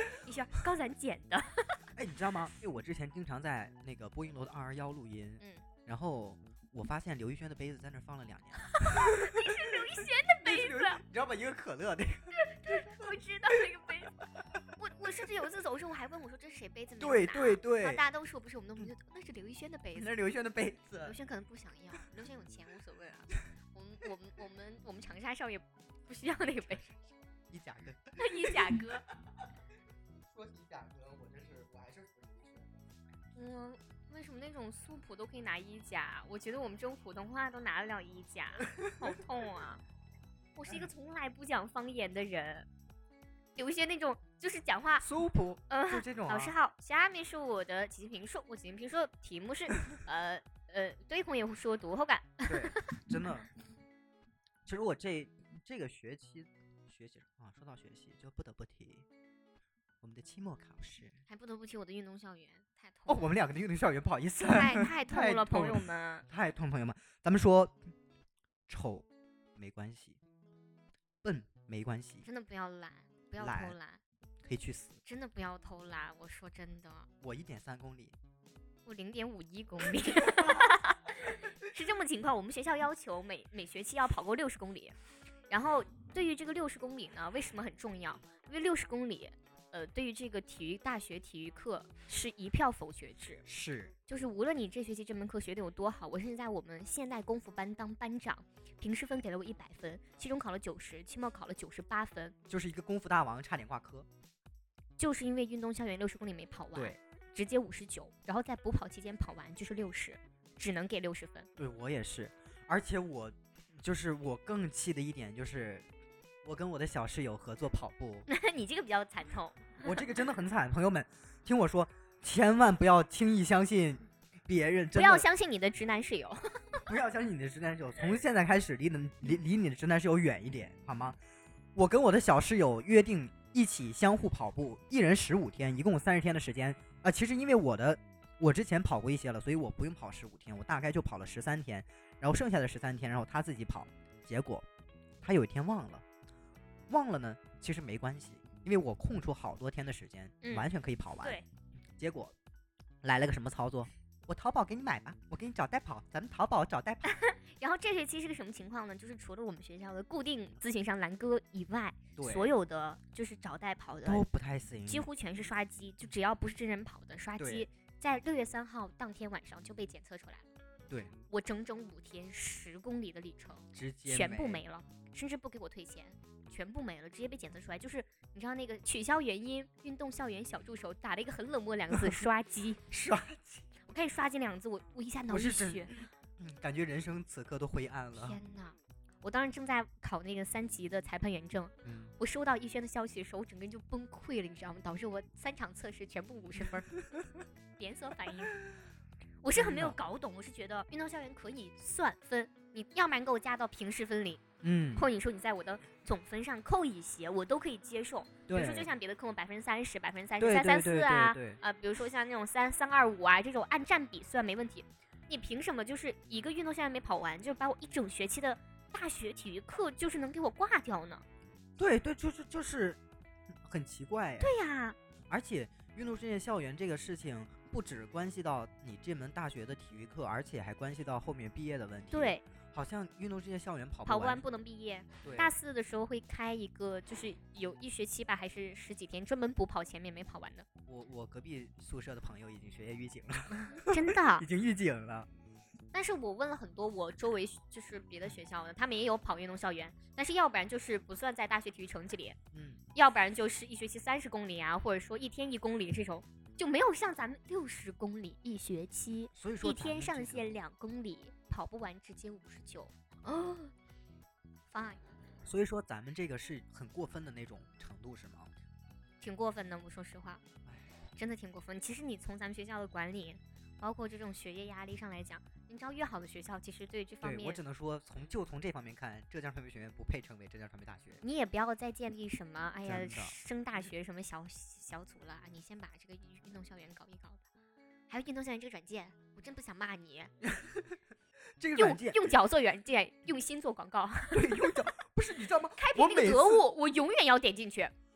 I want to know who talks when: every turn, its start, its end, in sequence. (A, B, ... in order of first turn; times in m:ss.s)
0:00.2-0:01.8 A
0:01.9-0:09.9 B
0:08.8-0:11.0 A
0:10.4-0:13.1 B
0:12.3-0:14.1 A
0:14.8-0:20.1 A
0:17.0-0:18.0 B
0:20.0-0:21.2 B
0:21.0-0:27.0 A
0:27.5-0:28.8 B
0:28.2-0:29.1 A
0:30.3-0:32.8 B
0:33.4-0:39.8 A
0:38.8-0:39.1 B
0:40.6-0:42.7 A
0:43.6-0:45.1 A
0:45.0-0:46.6 B
0:45.7-0:52.8 A
0:52.4-0:53.5 B
0:54.6-0:59.0 B
1:00.0-1:01.2 B
1:01.3-1:03.3 A
1:03.1-1:07.9 B
1:04.5-1:06.3 A
1:08.7-1:10.2 B
1:11.2-1:12.3 B
1:12.2-1:14.0 A
1:13.4-1:13.8 B
1:14.4-1:15.0 B
1:15.0-1:17.1 A
1:17.2-1:18.1 B
1:18.8-1:24.9 A
1:20.3-1:20.6 B
1:25.5-1:33.4 A
1:33.4-1:33.9 B
1:34.1-1:42.4 A
1:42.5-1:44.1 B
1:45.0-1:51.5 A
1:46.7-1:47.0 B
1:51.6-1:55.9 B
1:56.4-1:58.3 B
1:58.3-2:00.0 A
1:59.8-2:05.3 B
2:04.9-2:06.8 A
2:06.9-2:11.2 B
2:11.8-2:24.6 B
2:25.2-2:26.0 B
2:26.9-2:31.4 B
2:30.4-2:30.7 A
2:31.9-2:32.3 B
2:33.0-2:37.1 B
2:37.1-2:44.3 A
2:42.2-2:42.5 B
2:44.0-2:45.1 B
2:44.9-2:50.5 A
2:47.4-2:47.7 B
2:50.9-2:51.1 B
2:51.3-3:02.8 A
2:53.7-2:54.6 B
3:01.9-3:02.2 B
3:02.9-3:03.7 B
3:03.9-3:05.9 A
3:05.3-3:08.4 B
3:08.2-3:16.9 A
3:11.8-3:12.1 B
3:17.8-3:18.6 A
3:19.4-3:24.4 A
3:19.6-3:20.0 B
3:24.6-3:25.1 B
3:24.9-3:41.2 A
3:28.5-3:28.9 B
3:30.4-3:31.6 B
3:41.8-3:43.0 B
3:43.6-3:44.5 B
3:44.4-3:45.0 A
3:45.3-3:54.4 B
3:52.1-3:52.4 A
3:54.1-4:00.7 A
3:55.2-3:55.5 B
4:00.9-4:05.3 B
4:03.7-4:04.4 A
4:05.9-4:12.4 A
4:12.5-4:12.8 B
4:12.9-4:23.7 A
4:19.4-4:20.5 B
4:24.7-4:25.0 A
4:25.4-4:28.5 B
4:29.2-4:30.4 A
4:31.2-4:37.6 A
4:37.2-4:41.2 B
4:41.2-4:47.4 A
4:42.8-4:43.4 B
4:48.1-4:50.3 A
4:50.4-4:51.0 B
4:51.6-4:52.2 B
4:51.8-4:54.8 A
4:54.3-4:56.6 B
4:55.8-4:57.9 A